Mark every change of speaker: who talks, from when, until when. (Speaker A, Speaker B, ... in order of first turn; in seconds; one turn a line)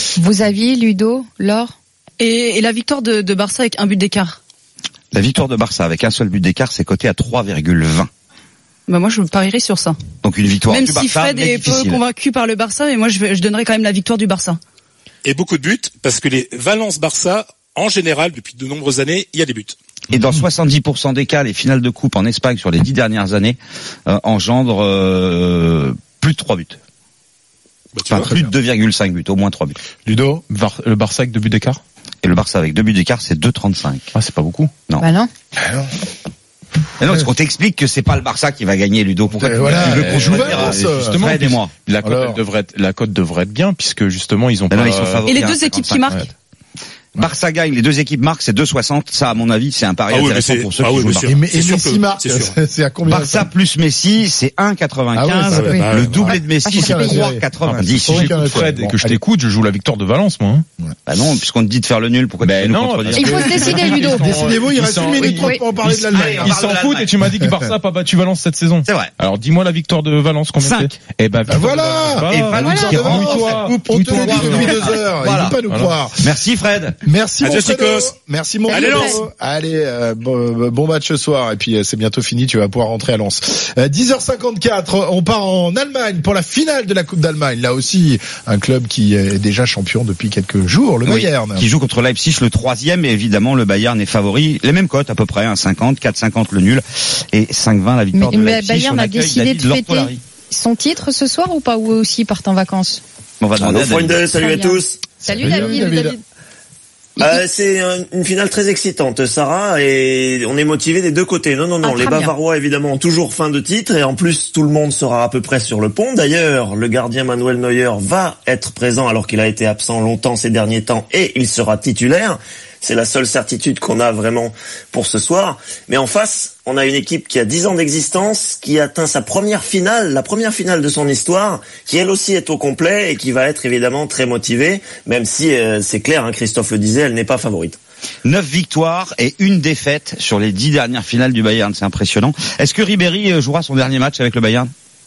Speaker A: 0.1-1.7
Speaker B: 2.2-4.4
Speaker C: 5.1-8.1
Speaker B: 8.9-10.0
Speaker C: 10.2-12.0
Speaker B: 10.7-14.6
Speaker D: 15.2-19.8
Speaker C: 20.1-26.8
Speaker D: 27.9-28.4
Speaker C: 28.1-29.8
Speaker E: 30.1-30.4
Speaker F: 30.5-31.8
Speaker C: 32.2-34.1
Speaker F: 34.1-34.7
Speaker A: 35.0-35.3
Speaker E: 35.6-35.9
Speaker C: 37.0-41.7
Speaker E: 39.3-41.2
Speaker F: 39.9-45.3
Speaker E: 42.0-42.4
Speaker C: 44.7-46.1
Speaker B: 45.3-46.3
Speaker C: 47.2-51.3
Speaker D: 50.1-52.5
Speaker E: 51.2-53.5
Speaker C: 53.1-58.6
Speaker E: 55.1-59.2
Speaker D: 55.5-56.3
Speaker A: 56.6-57.3
Speaker F: 57.6-60.7
Speaker C: 61.1-63.9
Speaker F: 62.4-74.8
Speaker A: 63.1-64.4
Speaker E: 63.8-66.6
Speaker A: 65.2-65.6
Speaker C: 65.8-67.1
Speaker E: 67.4-67.7
Speaker C: 68.9-69.1
Speaker C: 70.6-70.9
Speaker E: 71.5-76.3
Speaker C: 72.2-75.6
Speaker A: 72.5-73.0
Speaker F: 75.7-76.0
Speaker C: 76.2-77.0
Speaker E: 77.0-91.7
Speaker D: 77.4-78.1
Speaker A: 78.7-79.1
Speaker D: 78.7-79.2
Speaker C: 91.0-100.2
Speaker A: 98.2-103.0
Speaker C: 103.4-104.2
Speaker G: 103.6-105.1
Speaker A: 104.2-106.2
Speaker E: 105.2-106.2
Speaker G: 107.2-137.8
Speaker A: 111.8-112.3
Speaker C: 138.2-144.7